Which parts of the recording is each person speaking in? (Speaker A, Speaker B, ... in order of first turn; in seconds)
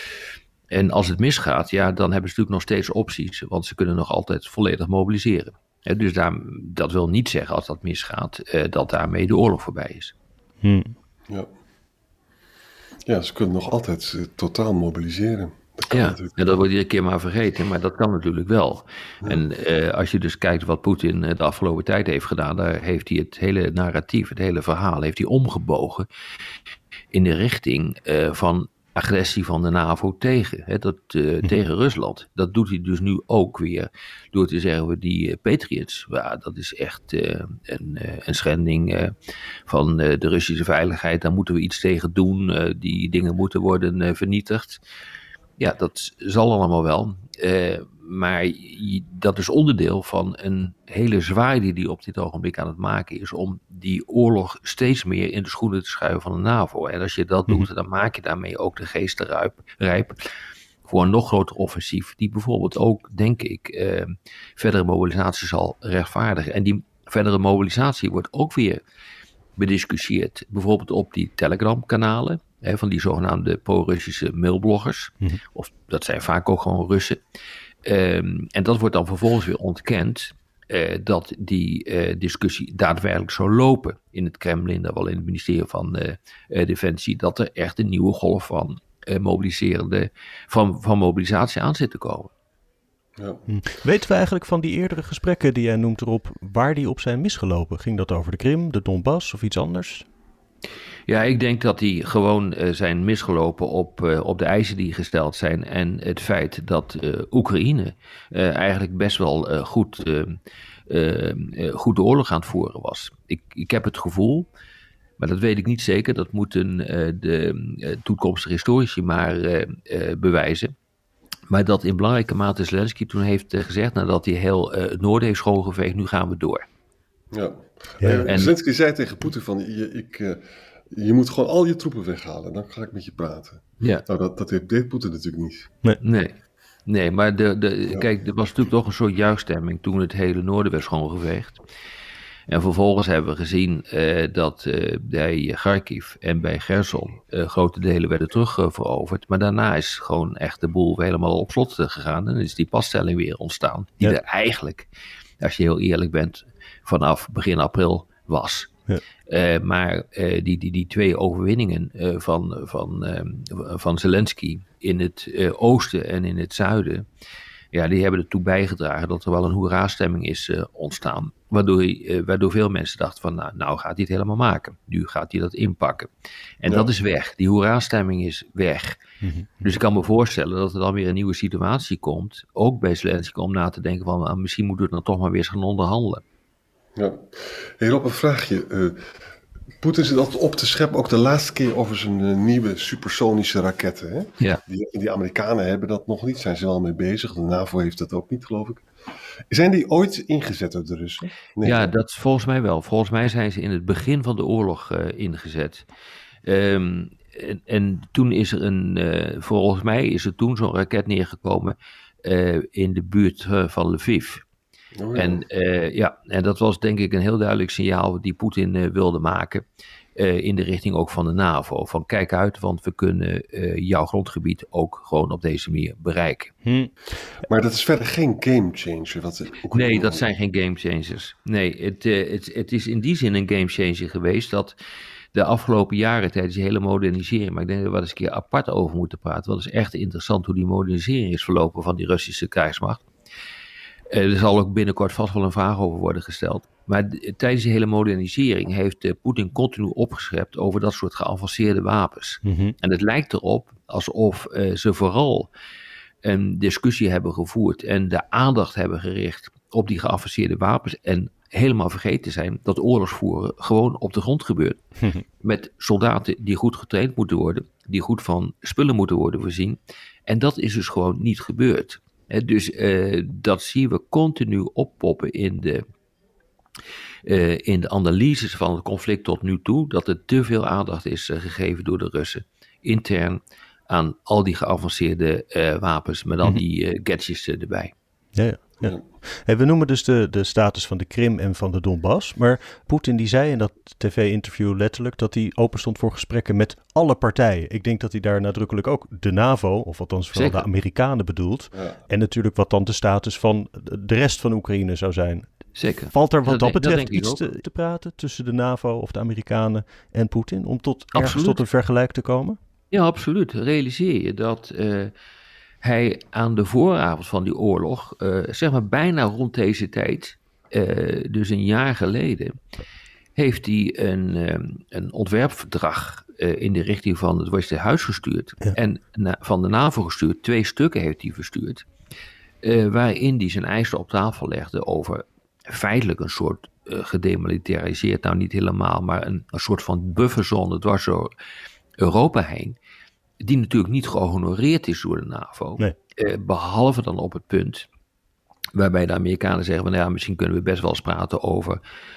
Speaker A: 0.7-10.1, 15.9-26.1, 27.1-39.1, 39.7-44.8, 45.6-60.2, 60.8-68.8, 69.6-77.2, 77.8-92.3, 101.1-110.4, 110.9-114.5, 115.2-120.7, 121.5-126.6, 128.3-128.5, 136.0-136.3, 136.9-141.6, 142.5-154.9, 155.4-158.7, 159.3-167.1, 167.7-176.1, 176.6-179.0, 179.6-186.2, 201.6-205.8, 206.4-214.4, 215.1-219.6, 220.2-226.5, 229.7-234.8, 235.3-243.0, 244.1-255.5, 256.2-264.8, 265.4-275.8, 277.2-287.9, 300.3-300.6, 305.8-307.5, 311.1-311.6, 312.9-315.1, 315.8-322.6, 323.3-331.8, 332.6-341.3, 342.0-342.8, 343.4-347.9, 348.7-351.8
Speaker B: 10.6-10.9, 93.5-100.0, 128.0-128.3, 179.2-179.7, 226.6-226.9, 252.4-252.7, 288.4-305.5, 306.1-312.6
Speaker C: 13.1-16.6, 127.3-130.4, 130.9-135.7, 176.7-176.9, 186.9-189.0, 189.8-198.9, 199.5-201.9, 214.9-215.4, 227.5-230.2